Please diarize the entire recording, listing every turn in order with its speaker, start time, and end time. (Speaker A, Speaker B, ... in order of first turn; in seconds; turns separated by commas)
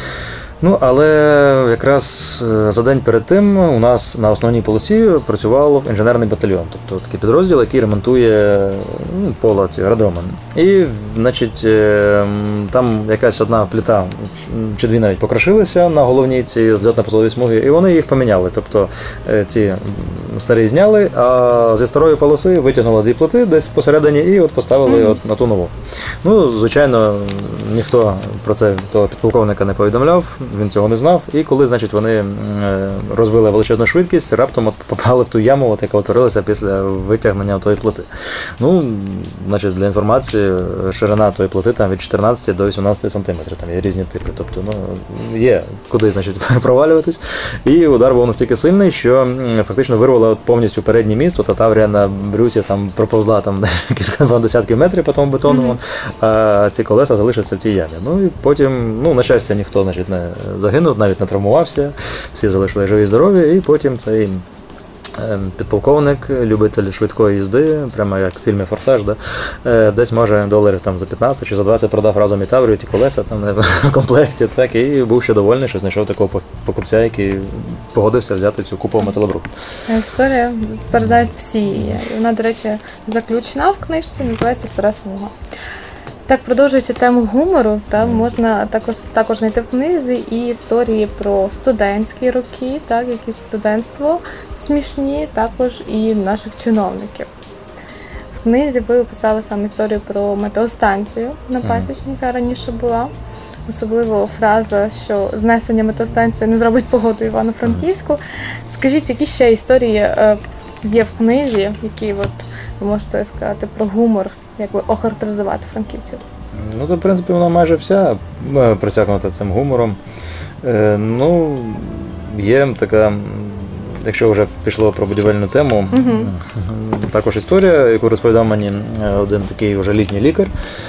Speaker A: 0.6-64.4, Speaker B: 24.9-25.2, Speaker B: 55.5-55.8, Speaker A: 65.2-79.5, Speaker B: 79.9-85.3, Speaker B: 86.3-97.3, Speaker B: 98.3-103.1, Speaker A: 101.6-101.9, Speaker B: 103.7-116.2, Speaker A: 116.5-120.0, Speaker A: 120.6-130.5, Speaker B: 125.9-126.3